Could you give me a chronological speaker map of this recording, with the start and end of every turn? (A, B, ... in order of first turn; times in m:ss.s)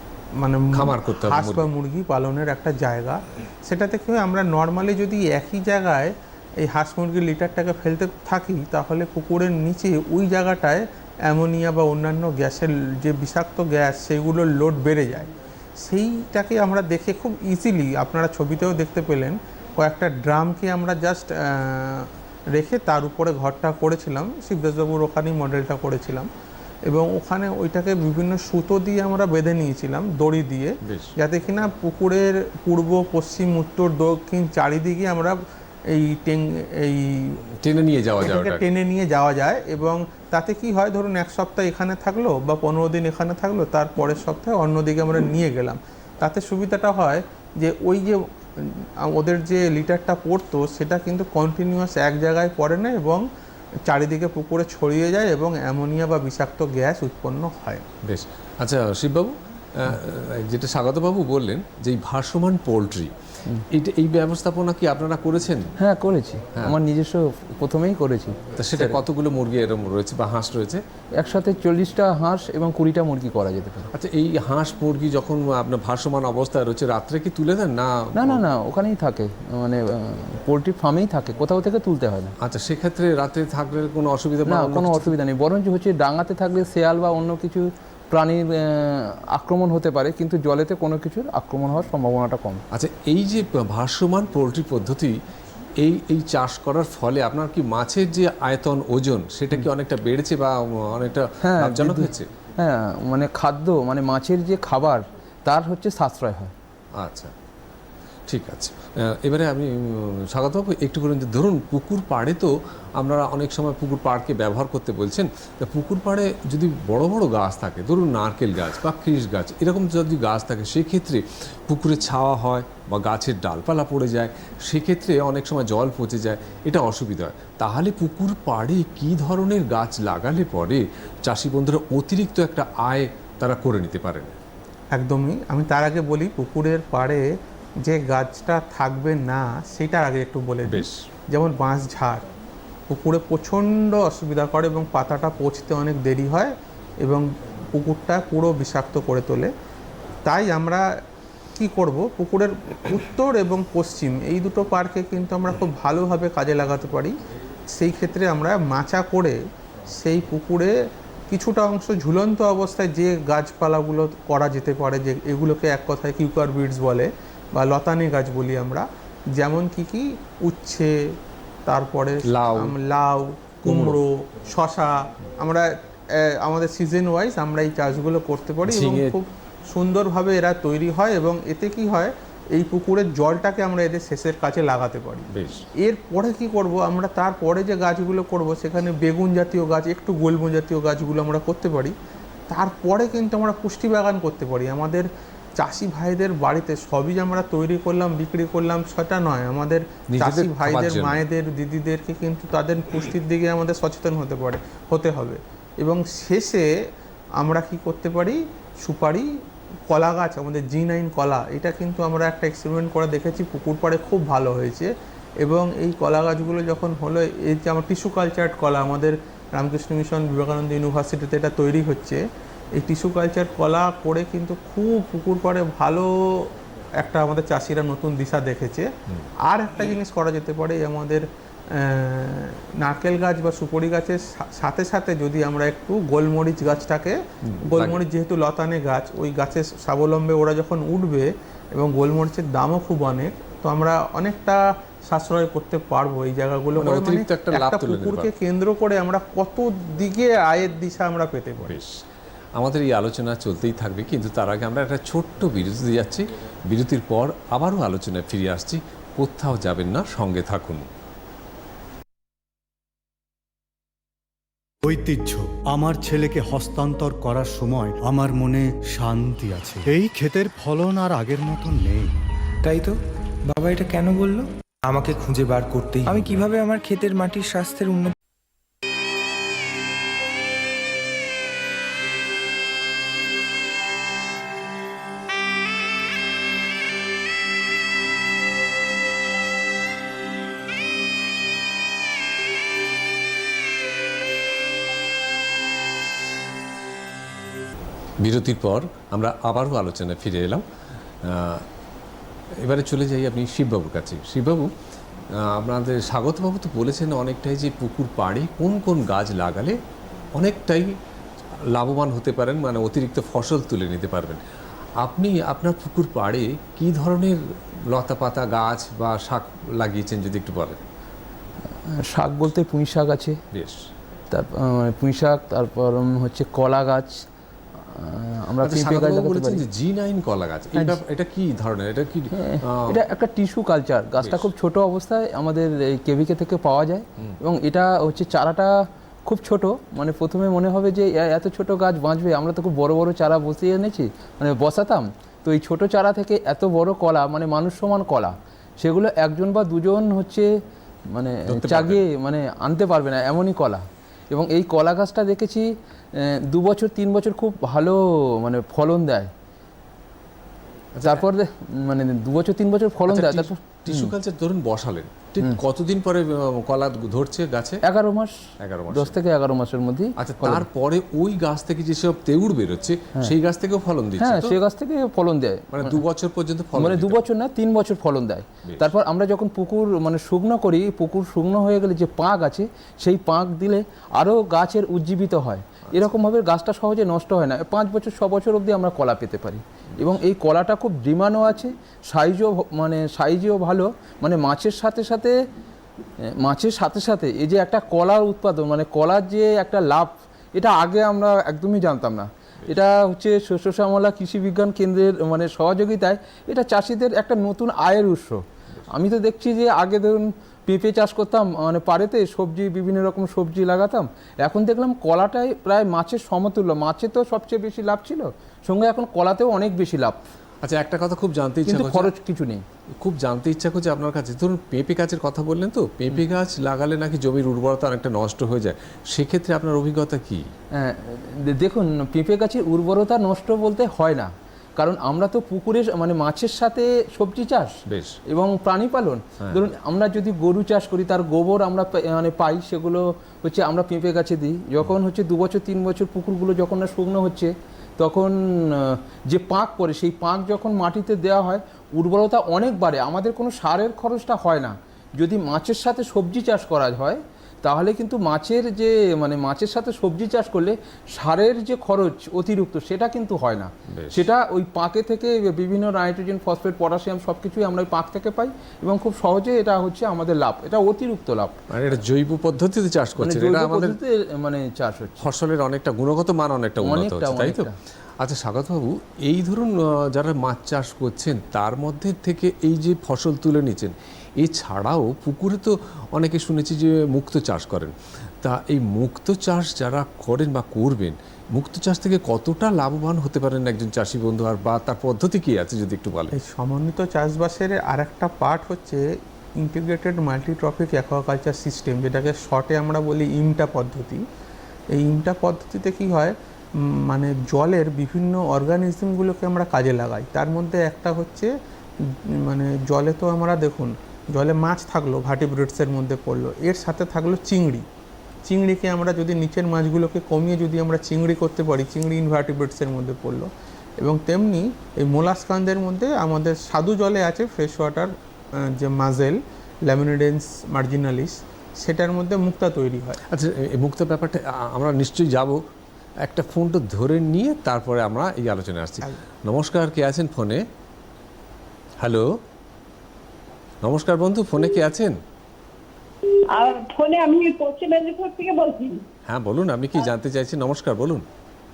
0:00.4-0:26.3 A
0:00.7-0:01.7 B
0:26.9-0:37.4 A
0:30.8-0:31.1 B
0:37.6-0:38.6 B
0:38.2-0:53.2 A
0:53.8-0:57.8 A
0:58.0-1:03.1 B
1:03.7-1:05.7 B
1:05.8-1:09.0 C
1:08.6-1:10.8 B
1:11.2-1:13.9 C
1:13.9-1:18.4 B
1:18.1-1:22.3 C
1:22.4-1:25.1 B
1:24.5-1:32.6 C
1:32.7-1:35.2 B
1:35.8-1:42.3 B
1:41.4-1:46.5 C
1:47.0-1:47.3 B
1:48.3-2:14.4 B
2:14.9-2:22.2 A
2:20.6-2:21.0 B
2:22.9-2:29.5 A
2:30.2-2:31.0 A
2:31.6-2:37.1 A
2:37.7-2:39.4 A
2:39.9-2:40.7 A
2:41.3-3:11.9 A
2:52.2-2:52.8 B
2:53.6-2:54.0 B
2:58.6-2:59.2 B
3:05.3-3:05.6 B
3:12.5-3:26.7 A
3:20.1-3:21.2 B
3:27.4-3:29.3 A
3:29.9-3:42.2 A
3:42.8-3:48.9 A
3:49.4-4:11.8 A
3:57.4-3:58.0 B
4:06.8-4:08.3 B
4:11.6-4:12.0 B
4:12.6-4:20.9 B
4:24.8-4:32.1 D
4:32.6-4:33.0 E
4:33.5-4:38.1 E
4:58.2-5:00.6 B
5:01.2-5:01.6 B
5:02.5-5:04.7 B
5:05.3-5:09.8 B
5:10.3-5:10.9 B
5:11.5-5:14.4 B
5:15.0-5:20.8 B
5:21.8-5:23.4 C
5:23.5-5:23.9 B
5:24.3-5:29.6 C
5:28.6-5:33.0 B
5:32.3-5:50.5 C
5:34.2-5:34.5 B
5:51.1-5:59.3 C
5:51.5-5:52.0 B
6:00.9-6:01.2 B
6:01.0-6:04.1 C
6:03.1-6:07.8 B
6:07.8-6:08.4 C
6:08.6-6:09.2 B
6:08.9-6:10.6 C
6:10.2-6:14.6 B
6:14.2-6:16.0 C
6:15.7-6:17.2 B
6:16.8-6:35.3 C
6:18.6-6:18.9 B
6:25.9-6:26.1 B
6:36.2-7:00.2 C
7:00.6-7:02.1 B
7:01.6-7:02.6 C
7:02.9-7:10.5 B
7:10.7-7:51.6 C
7:17.9-7:18.2 B
7:19.4-7:19.7 B
7:43.9-7:44.2 B
7:51.7-7:54.0 B
7:53.2-7:55.2 C
7:55.2-7:57.7 B
7:56.8-7:57.8 C
7:58.2-8:16.4 B
8:16.3-8:24.2 A
8:24.9-8:37.8 A
8:38.4-8:53.2 A
8:53.3-8:55.6 B
8:56.2-9:00.6 B
9:02.0-9:02.3 B
9:03.8-9:05.2 B
9:06.5-9:09.0 F
9:09.3-9:11.2 B